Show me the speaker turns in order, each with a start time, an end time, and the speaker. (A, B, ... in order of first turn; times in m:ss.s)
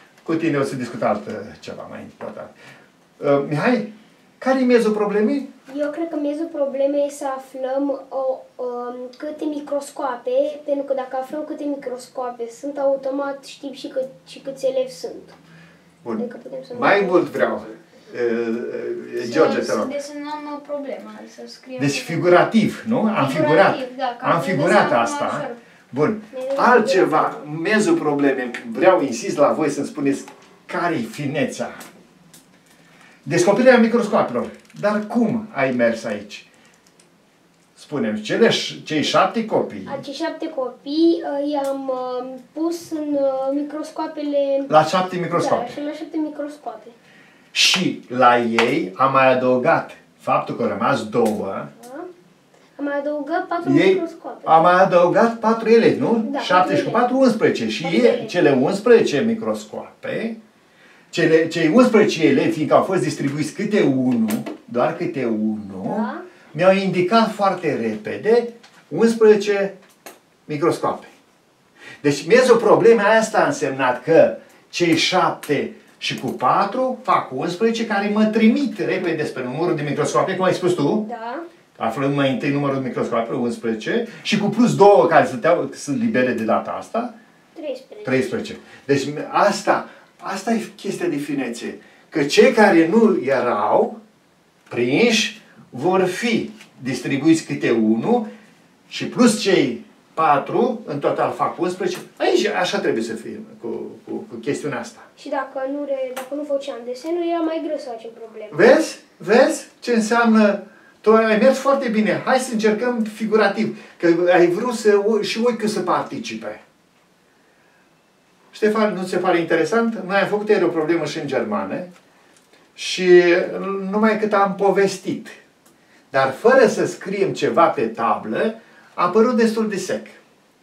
0:00.2-0:02.5 A
0:03.2-0:05.5 A
0:05.7-0:15.4 B
0:16.0-0:20.0 A
0:16.2-0:17.3 B
0:19.2-0:22.4 C
0:21.8-0:31.8 A
0:23.1-0:25.6 C
0:26.3-0:27.4 B
0:33.2-0:36.4 A
0:37.7-0:40.0 A
0:39.8-0:44.7 B
0:44.7-0:45.8 A
0:45.3-0:47.0 B
0:47.5-0:51.7 A
0:51.8-0:52.1 B
0:52.8-0:54.6 B
0:53.6-1:00.4 A
0:56.2-0:57.1 B
0:57.8-0:58.5 B
1:01.1-1:09.8 A
1:05.8-1:06.2 B
1:10.5-1:11.1 A
1:12.0-1:21.0 A
1:21.0-1:21.4 B
1:21.8-1:27.1 A
1:27.5-1:28.4 B
1:28.0-1:34.0 A
1:34.7-1:38.3 A
1:38.9-1:45.1 A
1:45.2-1:48.7 B
1:48.5-1:56.6 A
1:58.5-2:01.9 A
2:02.7-2:05.4 A
2:06.1-2:10.2 A